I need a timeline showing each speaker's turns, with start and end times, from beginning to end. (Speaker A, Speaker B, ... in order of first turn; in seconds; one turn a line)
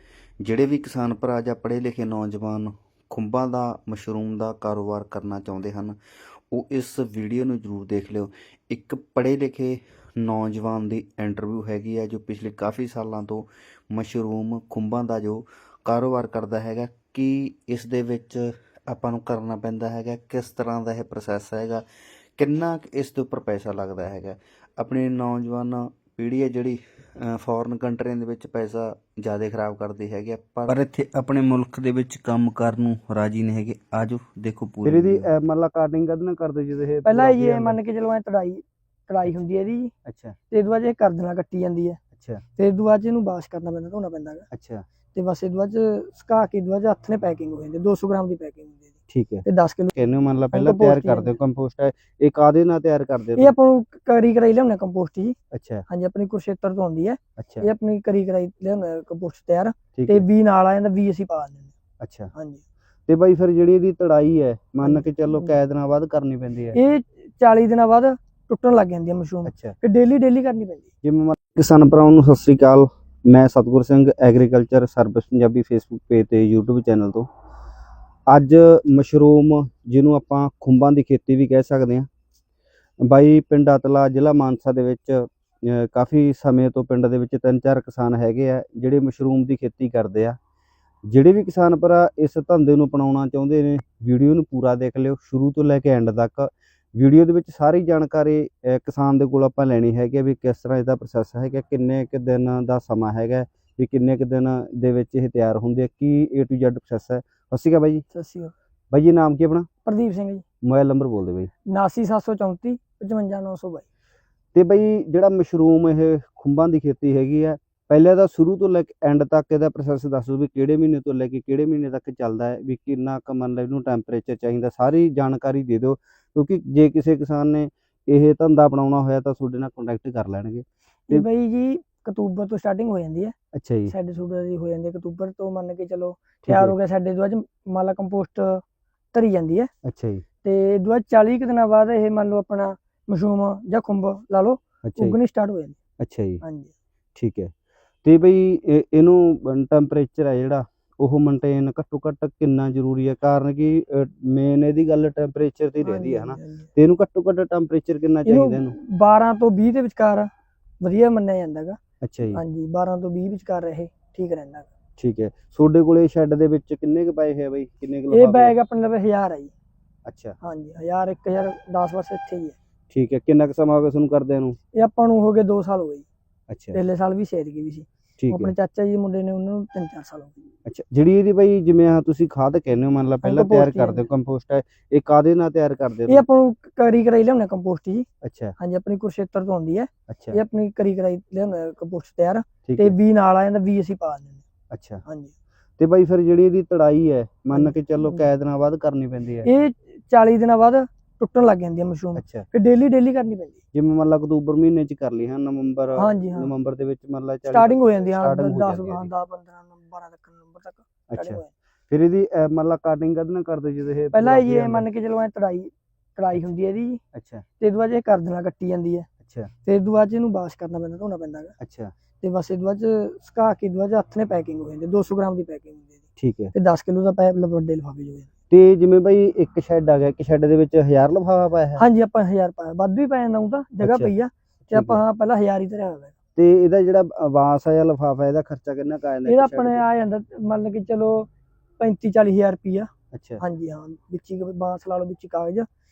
Speaker A: 0.4-6.0
Speaker A: 6.5-21.8
Speaker A: 22.4-35.3
Speaker B: 34.8-37.8
Speaker C: 37.0-39.9
Speaker B: 40.1-40.4
Speaker C: 40.5-42.0
Speaker B: 42.1-42.4
Speaker C: 42.6-44.5
Speaker B: 44.5-44.8
Speaker C: 45.1-50.0
Speaker B: 49.1-53.5
Speaker C: 50.5-51.3
Speaker C: 53.4-55.4
Speaker B: 55.5-55.8
Speaker C: 55.9-61.7
Speaker B: 57.4-57.6
Speaker B: 60.0-60.2
Speaker B: 62.0-62.3
Speaker C: 62.4-62.6
Speaker B: 63.1-66.8
Speaker C: 64.8-65.5
Speaker C: 66.7-70.9
Speaker B: 69.5-69.8
Speaker B: 71.0-77.3
Speaker B: 78.3-82.1
Speaker B: 83.0-90.4
Speaker B: 91.1-108.0
Speaker C: 108.1-108.5
Speaker B: 108.9-109.7
Speaker C: 109.9-110.4
Speaker B: 110.7-111.5
Speaker C: 111.7-113.8
Speaker B: 114.5-131.3
Speaker C: 131.1-133.3
Speaker B: 133.5-133.9
Speaker C: 133.9-138.6
Speaker B: 136.5-136.8
Speaker C: 139.1-139.7
Speaker B: 139.8-140.2
Speaker C: 140.4-145.8
Speaker B: 144.8-145.2
Speaker B: 146.0-146.4
Speaker C: 146.4-146.7
Speaker B: 147.2-147.5
Speaker B: 148.0-158.7
Speaker C: 155.8-156.7
Speaker C: 158.2-160.3
Speaker C: 160.8-161.8
Speaker B: 162.0-162.4
Speaker C: 162.3-164.7
Speaker B: 165.0-168.5
Speaker C: 168.1-169.5
Speaker B: 170.1-170.4
Speaker C: 170.4-172.6
Speaker B: 172.9-174.6
Speaker C: 174.8-176.1
Speaker B: 176.5-176.8
Speaker C: 176.7-180.4
Speaker B: 178.2-178.5
Speaker B: 180.7-186.2
Speaker C: 183.2-184.1
Speaker C: 186.1-188.1
Speaker B: 188.2-188.6
Speaker C: 188.6-194.4
Speaker B: 190.1-190.4
Speaker B: 192.7-192.9
Speaker B: 194.7-195.0
Speaker C: 195.1-195.3
Speaker B: 195.8-199.5
Speaker C: 197.5-198.2
Speaker C: 199.4-203.6
Speaker B: 202.2-202.4
Speaker B: 203.7-209.1
Speaker C: 206.0-206.5
Speaker C: 207.5-211.5
Speaker B: 211.1-214.9
Speaker C: 214.1-217.0
Speaker B: 217.1-217.4
Speaker C: 217.6-219.1
Speaker B: 219.2-219.5
Speaker C: 219.7-221.5
Speaker B: 221.6-221.9
Speaker C: 222.2-226.0
Speaker B: 226.2-226.5
Speaker C: 226.5-228.3
Speaker B: 228.5-231.8
Speaker C: 231.8-236.2
Speaker B: 233.8-234.1
Speaker B: 234.7-235.0
Speaker B: 236.4-239.8
Speaker C: 239.3-241.3
Speaker C: 241.8-242.9
Speaker B: 243.1-243.4
Speaker C: 243.4-245.7